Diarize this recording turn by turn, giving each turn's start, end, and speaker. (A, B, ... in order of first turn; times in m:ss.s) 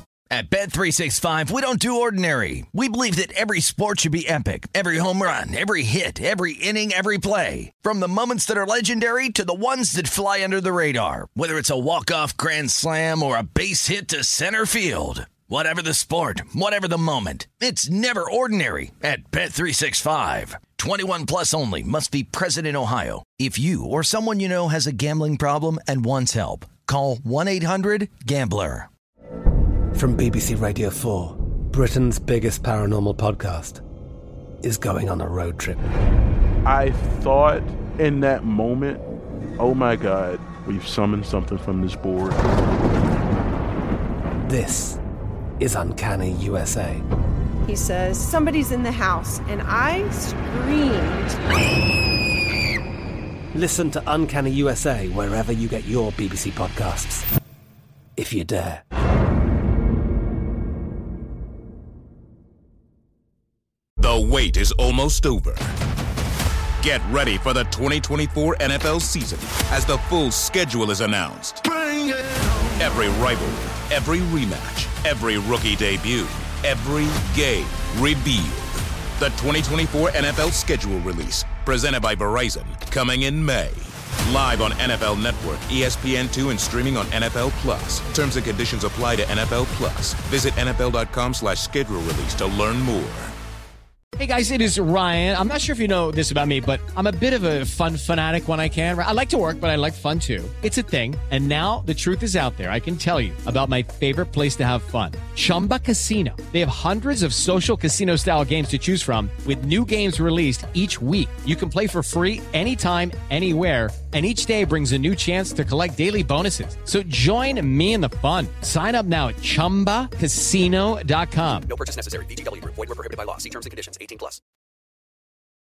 0:00.3-0:28.9 A
0:29.9-0:33.8 B
0:34.6-0:35.8 B
0:36.7-0:39.0 C
0:39.6-0:42.4 C
0:44.4-0:45.0 B
0:45.6-0:47.0 B
0:47.7-0:51.4 D
0:53.5-0:57.3 B
0:58.2-0:58.8 B
1:04.0-1:05.7 E
1:06.8-1:11.7 E
1:12.8-1:33.4 E
1:34.2-2:01.7 F
2:01.7-2:04.4 G